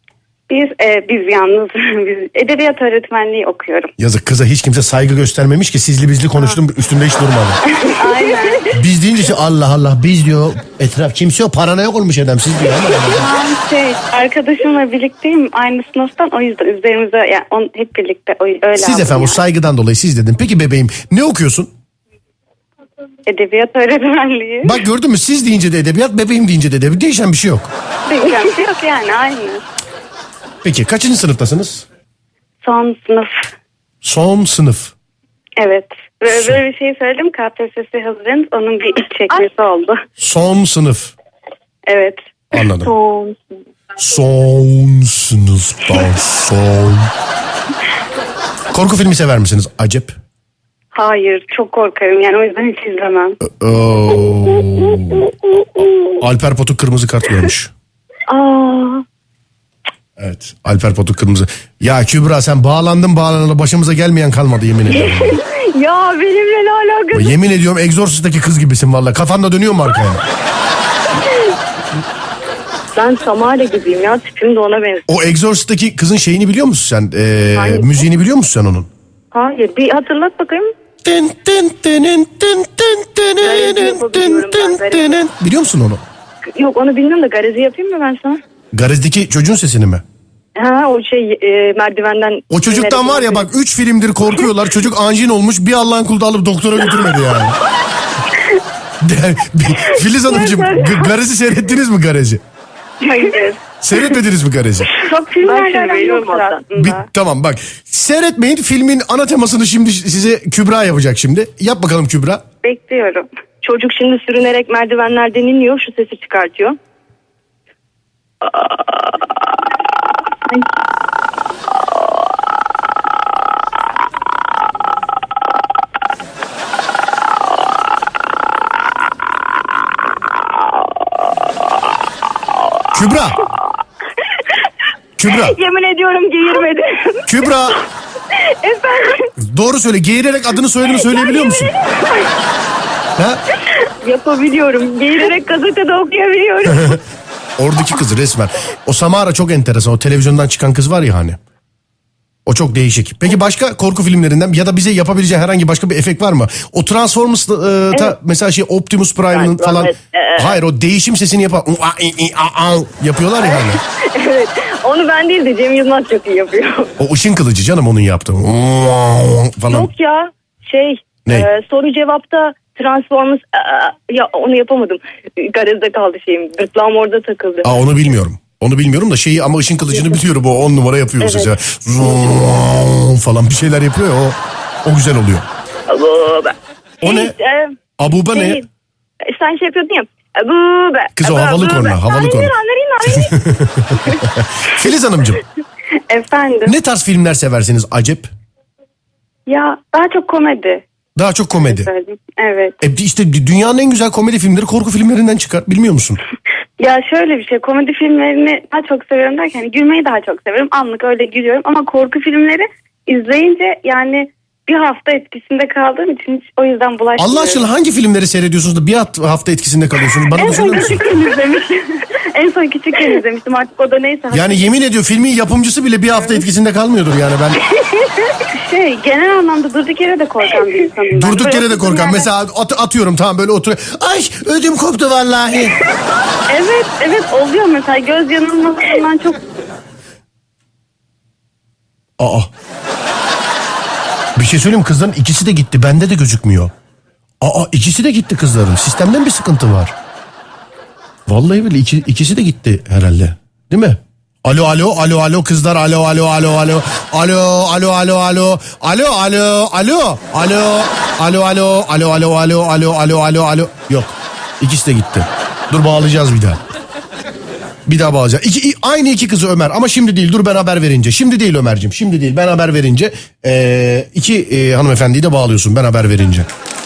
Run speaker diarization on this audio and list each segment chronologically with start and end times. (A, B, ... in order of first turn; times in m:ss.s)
0:00.5-0:03.9 A
0:04.0-0:07.6 B
0:07.8-0:08.7 A
0:08.2-0:08.7 C
0:08.7-0:13.3 B
0:13.2-0:19.4 A
0:18.8-0:21.7 B
0:23.2-0:24.8 A
0:24.6-0:27.7 B
0:28.1-0:29.6 A
0:30.6-0:31.8 B
0:32.6-0:33.5 A
0:34.0-0:34.9 B
0:35.6-0:40.0 A
0:36.3-0:36.6 B
0:40.2-0:41.1 B
0:41.8-0:42.2 A
0:42.5-0:42.9 B
0:42.8-0:43.4 C
0:44.0-0:47.1 B
0:48.7-0:50.1 B
0:50.9-0:53.4 A
0:53.4-0:55.3 B
0:55.0-0:56.1 C
0:56.2-0:57.7 B
0:58.3-0:59.0 C
1:00.2-1:05.4 B
1:04.9-1:07.3 C
1:07.1-1:10.2 B
1:11.1-1:11.5 C
1:13.0-1:15.1 C
1:15.1-1:18.9 B
1:17.5-1:18.0 C
1:19.3-1:20.7 C
1:21.0-1:26.0 B
1:23.4-1:25.2 C
1:26.5-1:28.4 C
1:28.7-1:30.0 B
1:30.6-1:33.5 C
1:32.5-1:37.6 B
1:39.0-1:42.4 B
1:39.7-1:41.1 C
1:43.0-1:44.2 C
1:43.8-1:44.9 B
1:44.8-1:47.1 A
1:45.4-1:46.6 C
1:46.7-1:52.4 B
1:52.6-1:53.2 A
1:53.6-1:56.8 C
2:12.9-2:13.4 B
2:14.4-2:14.7 C
2:15.2-2:15.6 B
2:15.2-2:17.8 C
2:17.3-2:17.8 B
2:18.3-2:19.3 C
2:19.4-2:21.7 B
2:20.8-2:22.3 C
2:24.0-2:27.0 C
2:26.7-2:27.0 B
2:27.6-2:31.4 B
2:32.4-2:43.8 B
2:39.3-2:40.6 C
2:43.4-2:46.9 C
2:47.0-2:49.9 B
2:49.7-2:57.8 C
2:57.6-3:05.5 B
3:01.2-3:01.5 C
3:05.9-3:08.6 C
3:07.0-3:07.3 B
3:08.0-3:08.6 B
3:09.2-3:13.4 C
3:11.2-3:12.5 B
3:13.0-3:15.4 B
3:14.0-3:14.2 C
3:16.1-3:16.8 A
3:16.6-3:18.3 B
3:19.5-3:20.8 A
3:21.2-3:21.9 B
3:21.6-3:22.8 A
3:22.8-3:26.2 B
3:26.8-3:37.6 A
3:37.2-3:41.1 B
3:40.3-3:44.7 A
3:40.4-3:40.8 C
3:44.3-3:47.6 B
3:46.2-3:46.4 A
3:48.5-3:52.3 A
3:51.1-3:55.8 B
3:56.5-3:59.4 A
4:02.2-4:02.5 B
4:04.4-4:06.7 B
4:07.4-4:09.9 B
4:11.3-4:26.6 B
4:27.8-4:36.5 B